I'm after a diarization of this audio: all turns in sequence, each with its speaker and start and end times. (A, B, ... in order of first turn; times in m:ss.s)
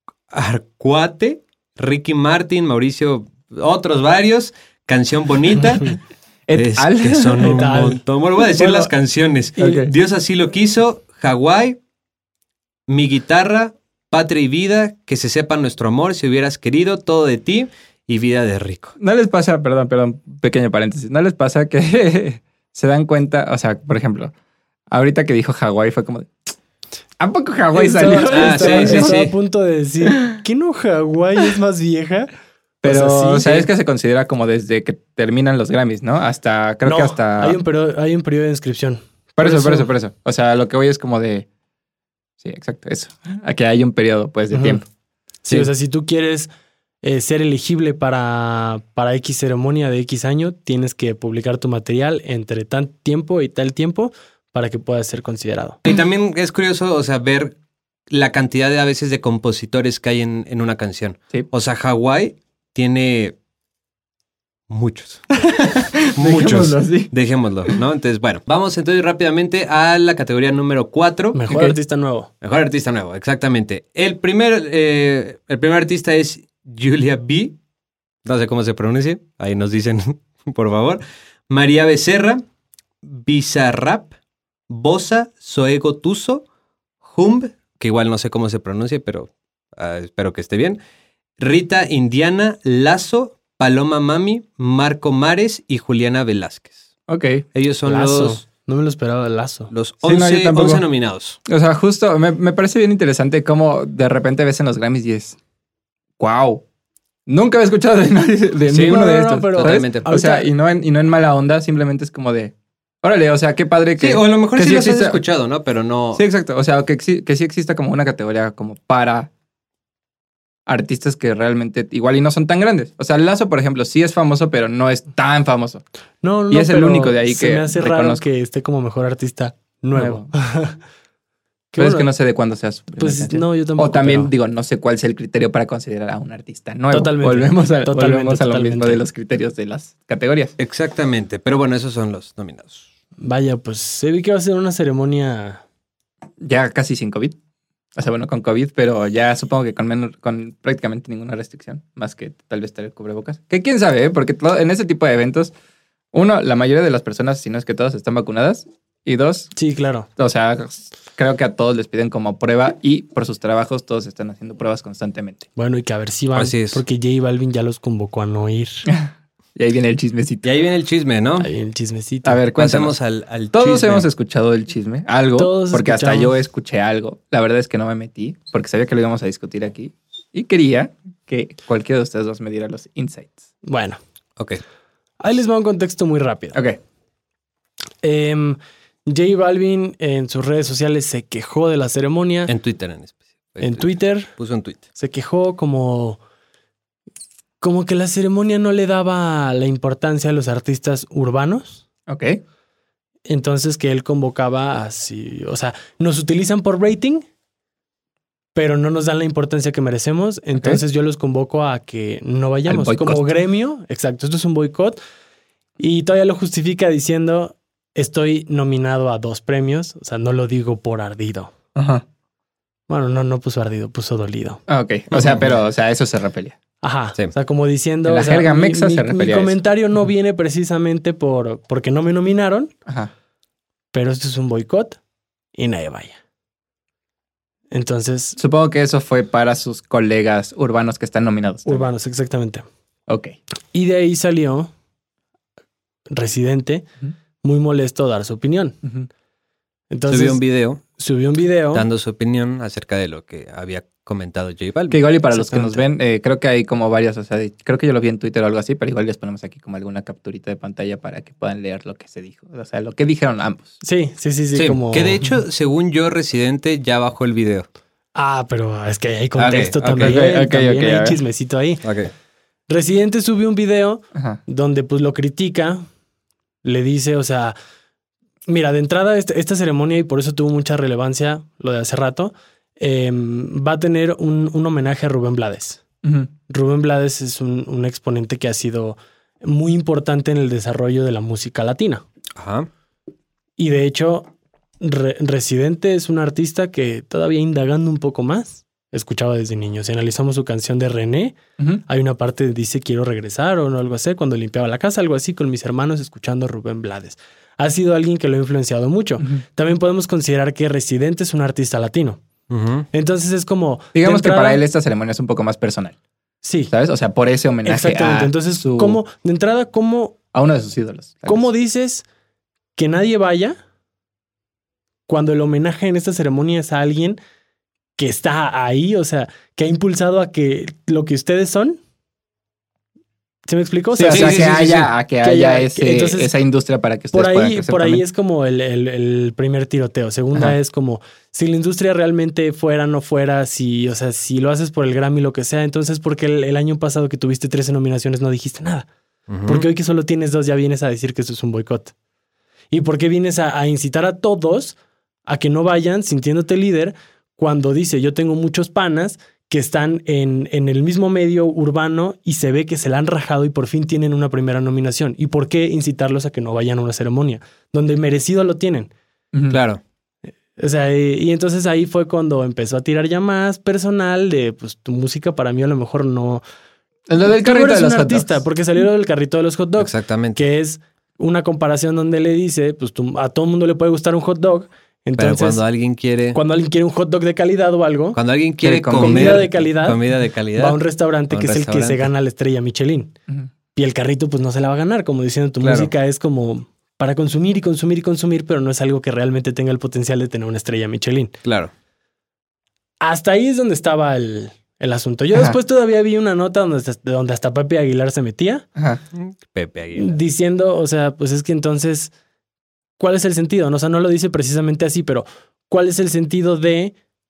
0:00.3-0:06.0 A
0:06.5-0:07.6 B
0:06.5-0:11.8 A
0:07.4-0:08.9 C
0:09.6-0:09.9 B
0:12.9-0:19.0 A
0:19.0-0:24.3 B
0:24.9-0:26.3 B
0:27.2-0:29.2 B
0:27.7-0:32.3 C
0:28.3-0:29.3 A
0:30.1-0:30.4 B
0:32.8-0:33.7 C
0:32.8-0:37.6 B
0:36.8-0:39.9 C
0:39.4-0:41.5 B
0:42.4-0:44.8 B
0:44.5-0:44.8 C
0:45.4-0:46.5 C
0:47.0-0:55.8 C
0:55.8-0:57.5 A
0:58.1-1:03.4 A
1:04.7-1:05.3 A
1:05.4-1:07.1 B
1:06.1-1:11.4 A
1:11.3-1:12.3 C
1:11.5-1:11.8 B
1:12.4-1:17.6 A
1:18.2-1:22.4 A
1:23.0-1:24.1 A
1:24.7-1:26.4 A
1:27.0-1:30.8 A
1:31.4-1:36.8 A
1:37.1-1:37.4 B
1:37.5-1:38.4 A
1:37.8-1:39.7 C
1:39.7-1:41.4 A
1:40.0-1:40.8 B
1:41.4-1:45.4 B
1:46.2-1:46.6 B
1:47.3-1:55.2 B
1:48.7-1:50.1 A
1:48.7-1:50.5 C
1:54.0-1:56.2 A
1:56.1-1:59.3 B
2:00.7-2:05.8 B
2:06.2-2:10.8 C
2:06.5-2:08.2 B
2:09.9-2:10.3 B
2:11.7-2:12.1 C
2:11.8-2:20.5 B
2:13.0-2:14.3 C
2:16.9-2:19.0 C
2:20.6-2:22.8 A
2:23.2-2:25.6 C
2:26.4-2:27.4 B
2:28.0-2:35.5 B
2:36.1-2:39.5 B
2:39.6-2:40.1 C
2:40.2-2:45.4 B
2:45.6-2:48.9 C
2:46.3-2:46.8 A
2:48.9-2:50.4 B
2:50.4-2:51.5 A
2:51.4-2:52.4 C
2:52.2-2:52.9 B
2:52.5-2:54.1 A
2:53.5-3:03.4 B
2:55.4-2:56.3 C
3:03.6-3:04.0 C
3:05.2-3:06.6 C
3:06.5-3:06.8 B
3:08.0-3:12.5 C
3:12.5-3:14.8 A
3:13.6-3:14.3 C
3:14.9-3:16.2 C
3:17.6-3:21.8 C
3:22.1-3:22.4 B
3:23.2-3:27.2 C
3:28.5-3:35.0 C
3:30.6-3:30.8 B
3:32.7-3:33.2 B
3:35.8-3:41.5 C
3:41.7-3:42.0 B
3:42.9-3:44.6 C
3:44.7-3:46.6 B
3:45.1-3:45.5 A
3:46.8-3:52.7 C
3:48.0-3:49.6 B
3:52.8-3:53.1 B
3:53.9-3:55.0 C
3:55.5-3:56.2 C
3:57.7-3:58.4 C
3:58.4-4:01.9 B
4:01.6-4:02.6 C
4:03.1-4:03.4 B
4:03.7-4:04.7 C
4:06.1-4:06.9 C
4:07.4-4:08.8 C
4:09.9-4:10.4 C
4:10.1-4:10.8 A
4:11.0-4:11.8 C
4:11.7-4:15.0 A
4:14.9-4:23.8 B
4:15.3-4:15.8 C
4:23.8-4:25.3 C
4:24.5-4:27.7 A
4:28.1-4:31.8 C
4:29.4-4:30.2 A
4:30.0-4:31.2 B
4:31.8-4:32.1 A
4:32.7-4:35.8 C
4:34.1-4:34.4 B
4:36.6-4:37.6 C
4:38.5-4:45.8 C
4:46.0-4:46.3 B
4:46.5-4:52.0 C
4:52.4-4:52.7 A
4:53.6-4:54.3 C
4:54.8-5:12.2 C
5:12.5-5:12.8 A
5:12.9-5:14.6 C
5:13.9-5:15.9 B
5:16.4-5:16.7 C
5:16.7-5:19.0 B
5:17.6-5:20.2 C
5:20.3-5:21.5 B
5:21.2-5:22.0 C
5:22.8-5:23.6 C
5:25.1-5:27.2 C
5:28.0-5:31.8 C
5:33.5-5:36.3 C
5:33.9-5:38.0 B
5:34.1-5:34.9 A
5:37.1-5:48.9 C
5:49.3-5:49.6 A
5:49.5-5:51.9 C
5:52.7-6:08.9 C
6:09.5-6:09.8 A
6:10.6-6:16.4 C
6:17.1-6:18.4 B
6:17.2-6:25.6 C
6:19.8-6:20.4 A
6:25.2-6:26.4 A
6:26.3-6:28.2 C
6:28.1-6:30.8 A
6:28.6-6:29.5 B
6:28.9-6:30.0 C
6:30.6-6:33.1 C
6:31.3-6:32.1 A
6:33.7-6:41.3 C
6:35.6-6:35.9 A
6:41.4-6:41.7 A
6:43.0-6:48.6 C
6:49.2-6:50.1 A
6:50.0-6:52.1 C
6:53.0-6:56.9 C